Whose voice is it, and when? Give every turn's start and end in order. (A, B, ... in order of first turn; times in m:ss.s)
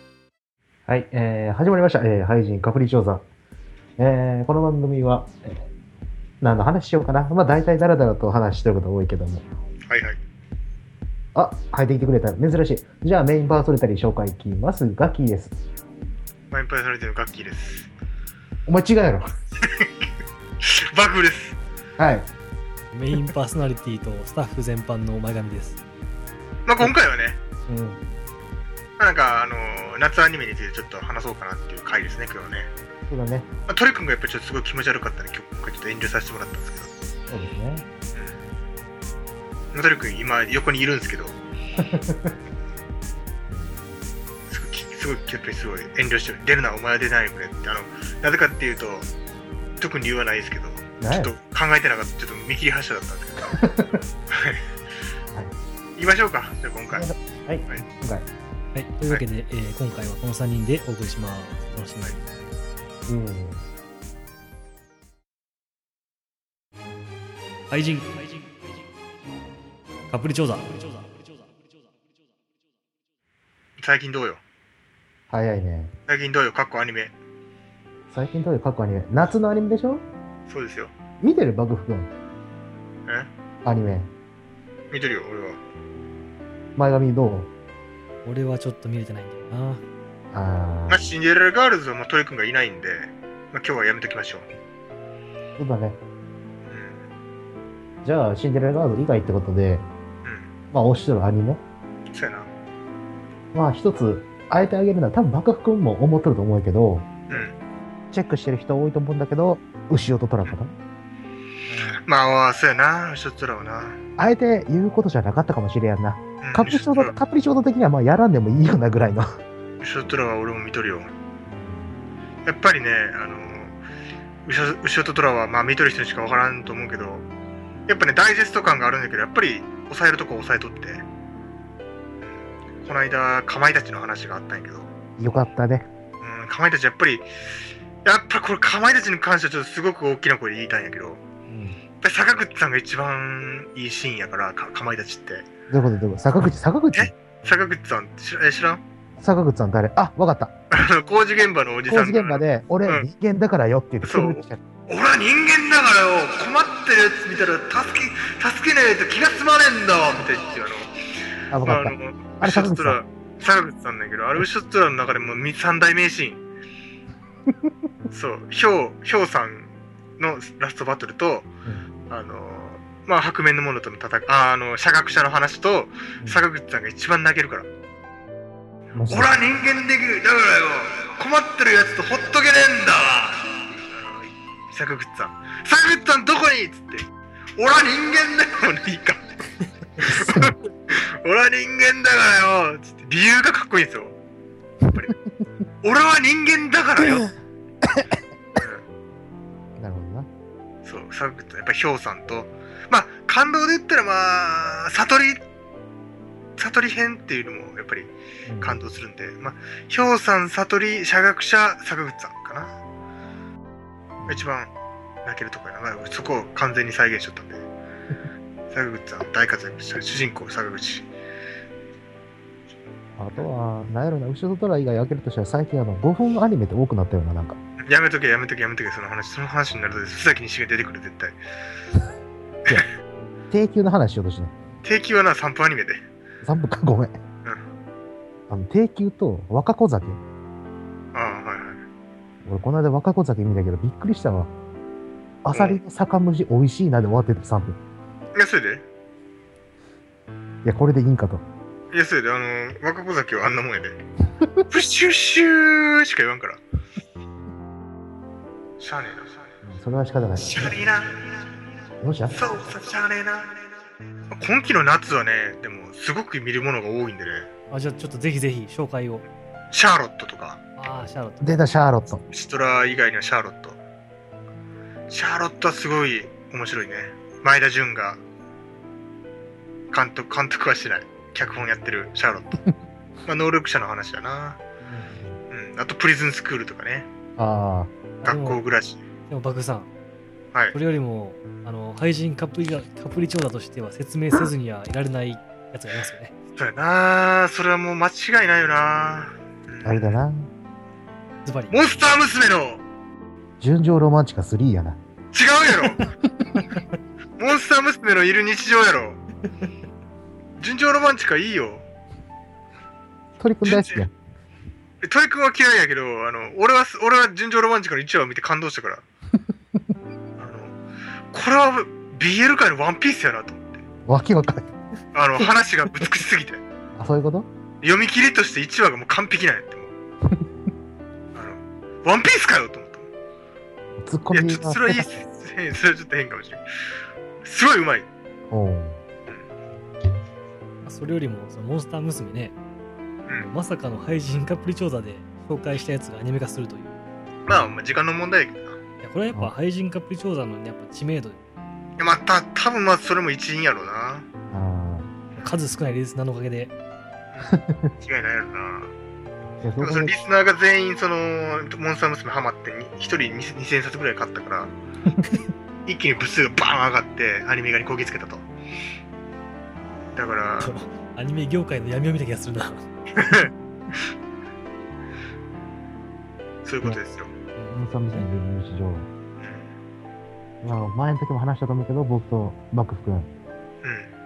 0:00.9-0:03.2 A
0:04.0-0:05.6 A
0:06.4-0:09.4 A
0:09.9-0:10.2 B
0:11.3-0:15.6 A
0:16.5-0:17.9 B
0:18.7-0:19.3 A
0:19.6-0:19.9 B
0:20.6-0:21.6 B
0:22.0-0:22.3 A
0:22.9-0:25.8 C
0:26.6-0:27.4 B
0:27.7-0:28.0 A
0:29.0-0:32.7 B
0:33.1-0:33.5 A
0:33.7-0:36.9 B
0:37.3-0:37.8 A
0:39.7-0:41.4 B
0:41.8-0:42.3 A
0:43.5-0:43.9 A
0:44.5-0:49.1 B
0:49.8-0:53.5 B
0:51.0-0:51.3 A
0:53.5-0:54.0 A
0:54.3-0:54.6 B
0:56.0-0:57.1 B
0:56.9-0:58.3 A
0:58.7-1:02.2 C
1:03.1-1:03.6 A
1:07.7-1:08.4 C
1:10.1-1:11.1 C
1:13.8-1:14.4 B
1:15.3-1:15.9 A
1:16.1-1:17.1 B
1:18.1-1:20.0 A
1:20.5-1:20.9 B
1:21.2-1:22.1 A
1:23.6-1:24.1 A
1:24.9-1:25.6 B
1:26.8-1:27.5 A
1:28.2-1:29.8 C
1:30.3-1:31.1 A
1:30.9-1:34.5 B
1:35.6-1:36.0 A
1:36.7-1:37.0 B
1:38.0-1:39.8 A
1:40.2-1:40.5 B
1:40.7-1:41.6 A
1:42.1-1:42.5 B
1:43.5-1:47.4 A
1:47.3-1:47.5 B
1:48.1-1:50.7 A
1:51.9-1:54.0 B
1:54.2-1:59.3 A
1:56.4-1:57.2 B
1:59.8-2:01.1 B
2:02.4-2:03.8 B
2:04.4-2:07.2 B
2:07.9-2:11.0 B
2:12.2-2:14.9 B
2:15.2-2:15.9 A
2:16.2-2:17.2 B
2:18.0-2:21.2 B
2:21.5-2:21.8 A
2:22.0-2:25.4 B
2:25.7-2:27.1 A
2:26.9-2:28.8 B
2:29.2-2:30.5 A
2:30.7-2:33.1 B
2:31.9-2:34.6 A
2:34.0-2:40.9 B
2:41.5-2:43.0 A
2:41.6-2:46.4 B
2:48.1-2:51.5 B
2:52.1-2:57.7 B
2:58.9-2:59.4 A
2:59.1-3:07.0 B
3:07.6-3:09.2 B
3:10.0-3:14.1 B
3:10.0-3:10.5 A
3:14.9-3:15.1 B
3:15.8-3:17.3 B
3:17.0-3:17.2 A
3:18.6-3:18.8 B
3:19.8-3:20.3 A
3:20.8-3:25.4 B
3:26.6-3:32.7 B
3:28.4-3:28.8 A
3:34.2-3:34.5 A
3:34.3-3:34.7 B
3:35.2-3:37.6 B
3:38.7-3:41.1 B
3:43.2-3:47.6 A
3:47.8-3:51.4 B
3:53.5-3:54.5 A
3:54.8-3:56.0 B
3:56.4-3:57.2 A
3:58.5-4:00.2 A
4:01.1-4:01.8 B
4:02.4-4:04.5 A
4:05.4-4:07.8 A
4:05.5-4:05.8 B
4:08.3-4:08.8 B
4:10.6-4:11.4 A
4:11.9-4:14.0 B
4:14.7-4:16.6 B
4:18.8-4:19.5 B
4:19.6-4:20.8 A
4:20.4-4:21.4 B
4:22.0-4:22.4 A
4:22.3-4:23.6 B
4:24.3-4:27.5 B
4:27.7-4:29.2 C
4:29.7-4:30.6 B
4:30.8-4:31.6 C
4:31.4-4:32.2 A
4:32.3-4:33.8 B
4:35.1-4:38.2 B
4:39.9-4:42.6 B
4:43.2-4:44.6 B
4:44.9-4:45.4 A
4:45.5-4:47.1 B
4:47.4-4:47.9 A
4:48.2-4:48.6 C
4:48.2-4:49.0 B
4:49.3-4:49.9 C
4:50.7-4:56.3 C
4:56.6-5:00.2 B
4:59.8-5:00.5 A
5:01.4-5:01.9 C
5:01.7-5:02.8 B
5:03.6-5:05.0 A
5:05.3-5:06.0 B
5:07.4-5:09.2 B
5:10.6-5:11.8 B
5:13.4-5:14.1 A
5:13.6-5:14.0 B
5:15.0-5:19.0 B
5:20.4-5:20.8 B
5:21.3-5:23.8 B
5:24.1-5:24.7 A
5:25.1-5:26.6 B
5:27.0-5:27.5 A
5:27.8-5:29.9 B
5:31.3-5:33.1 B
5:34.0-5:35.2 A
5:34.3-5:36.6 B
5:37.4-5:38.1 B
5:38.5-5:39.0 A
5:40.8-5:42.5 C
5:43.3-5:47.0 C
5:47.5-5:48.8 B
5:49.0-5:51.4 C
5:52.0-5:54.3 B
5:54.5-5:55.1 A
5:55.4-5:56.7 C
5:57.3-5:58.9 B
5:57.5-5:57.9 A
5:59.6-6:00.1 A
5:59.8-6:04.7 B
6:05.8-6:08.5 B
6:10.1-6:10.7 B
6:10.6-6:12.8 C
6:13.2-6:13.5 B
6:16.6-6:17.3 B
6:17.6-6:18.2 C
6:17.7-6:19.1 A
6:19.4-6:19.7 B
6:20.6-6:23.3 A
6:23.8-6:24.1 B